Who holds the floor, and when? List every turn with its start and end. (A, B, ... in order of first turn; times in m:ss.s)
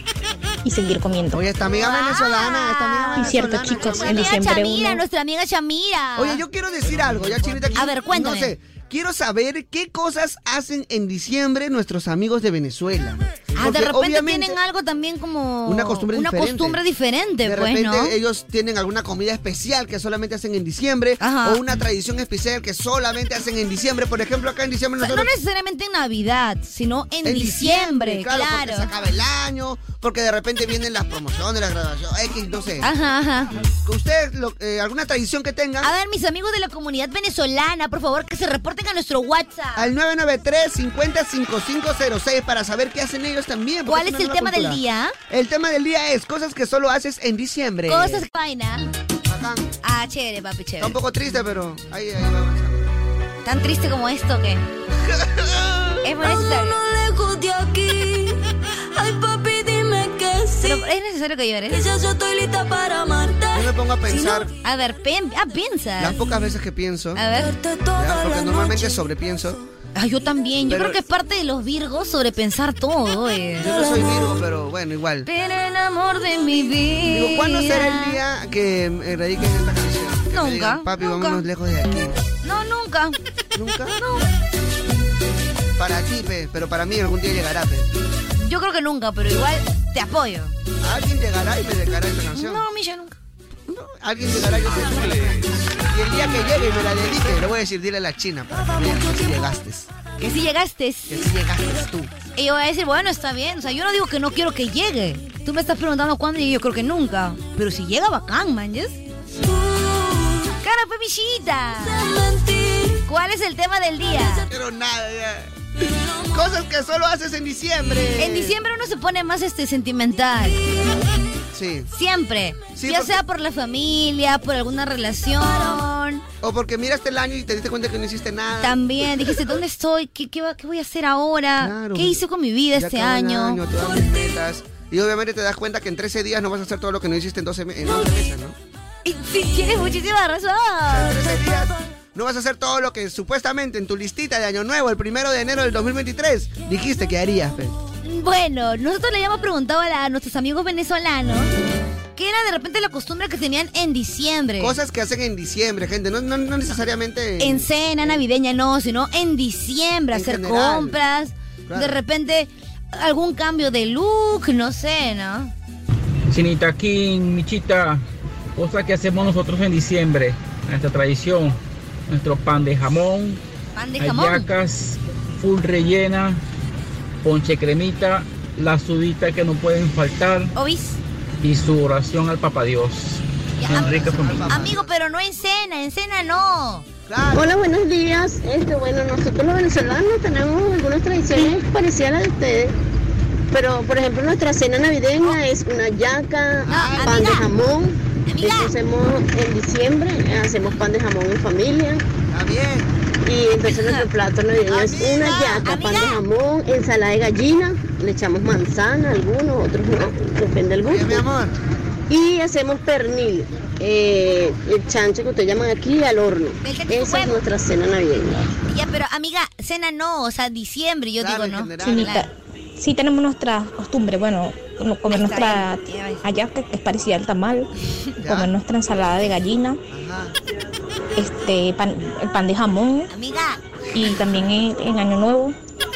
0:00.6-0:01.4 A
0:01.3-0:04.4 B
0:01.7-0:06.4 C
0:03.2-0:05.0 A
0:06.2-0:14.6 B
0:07.8-0:08.5 C
0:13.6-0:18.2 C
0:15.7-0:16.8 B
0:17.4-0:25.3 B
0:21.2-0:21.6 C
0:25.0-0:28.9 C
0:27.2-0:32.9 B
0:32.8-0:33.5 C
0:33.8-0:35.9 B
0:35.8-0:39.9 C
0:39.8-0:48.2 B
0:43.9-0:45.2 C
0:47.9-0:48.9 C
0:49.3-0:49.7 B
0:49.8-0:51.0 C
0:50.8-0:52.9 B
0:53.4-0:54.6 C
0:55.0-0:56.2 B
0:56.0-0:56.8 C
0:56.2-0:58.4 D
0:59.0-1:00.8 D
1:00.6-1:01.8 C
1:01.7-1:03.7 D
1:03.5-1:04.5 B
1:04.1-1:06.2 C
1:06.0-1:07.2 B
1:07.2-1:07.5 C
1:07.4-1:09.0 D
1:08.0-1:09.6 B
1:10.0-1:14.2 C
1:10.7-1:11.0 B
1:13.6-1:15.3 B
1:15.3-1:18.2 C
1:17.1-1:22.2 B
1:20.3-1:21.4 C
1:22.4-1:23.2 C
1:23.6-1:24.0 B
1:24.0-1:24.3 C
1:25.8-1:27.9 B
1:28.4-1:30.5 C
1:30.8-1:32.6 B
1:32.4-1:33.2 C
1:33.7-1:39.9 B
1:40.2-1:41.3 C
1:41.1-1:42.1 B
1:42.4-1:49.0 C
1:49.4-1:50.5 D
1:50.6-1:52.1 C
1:51.9-1:53.0 D
1:53.1-1:54.5 C
1:54.5-1:55.6 B
1:56.3-1:58.6 B
1:58.2-2:00.6 C
2:01.5-2:01.9 B
2:01.9-2:06.2 C
2:02.8-2:03.2 B
2:06.4-2:09.5 B
2:08.6-2:13.6 C
2:11.6-2:12.2 B
2:12.7-2:18.6 B
2:19.0-2:21.4 C
2:20.9-2:27.8 B
2:28.0-2:31.5 C
2:32.2-2:34.8 C
2:34.6-2:38.2 B
2:37.4-2:45.5 C
2:40.1-2:41.0 B
2:41.7-2:42.0 B
2:46.3-2:48.0 E
2:48.6-2:51.6 E
2:52.1-2:53.4 E
2:53.8-2:54.5 C
2:54.0-2:56.4 E
2:57.2-3:00.5 E
3:00.6-3:01.0 C
3:01.4-3:04.5 E
3:03.6-3:06.9 C
3:03.6-3:04.9 B
3:07.1-3:07.5 B
3:07.3-3:12.8 F
3:13.5-3:22.0 F
3:16.7-3:17.1 B
3:16.7-3:17.5 C
3:18.3-3:18.7 C
3:22.3-3:22.9 B
3:23.2-3:31.2 F
3:23.7-3:24.1 C
3:24.7-3:25.5 B
3:25.2-3:26.2 C
3:30.8-3:31.6 B
3:32.1-3:38.5 F
3:36.6-3:37.4 C
3:38.7-3:42.3 C
3:41.2-3:42.2 B
3:41.8-3:47.7 A
3:45.1-3:46.2 C
3:48.2-3:48.5 B
3:48.2-3:49.8 A
3:49.9-3:50.3 B
3:51.2-3:53.1 A
3:53.1-3:53.6 C
3:53.9-3:55.6 A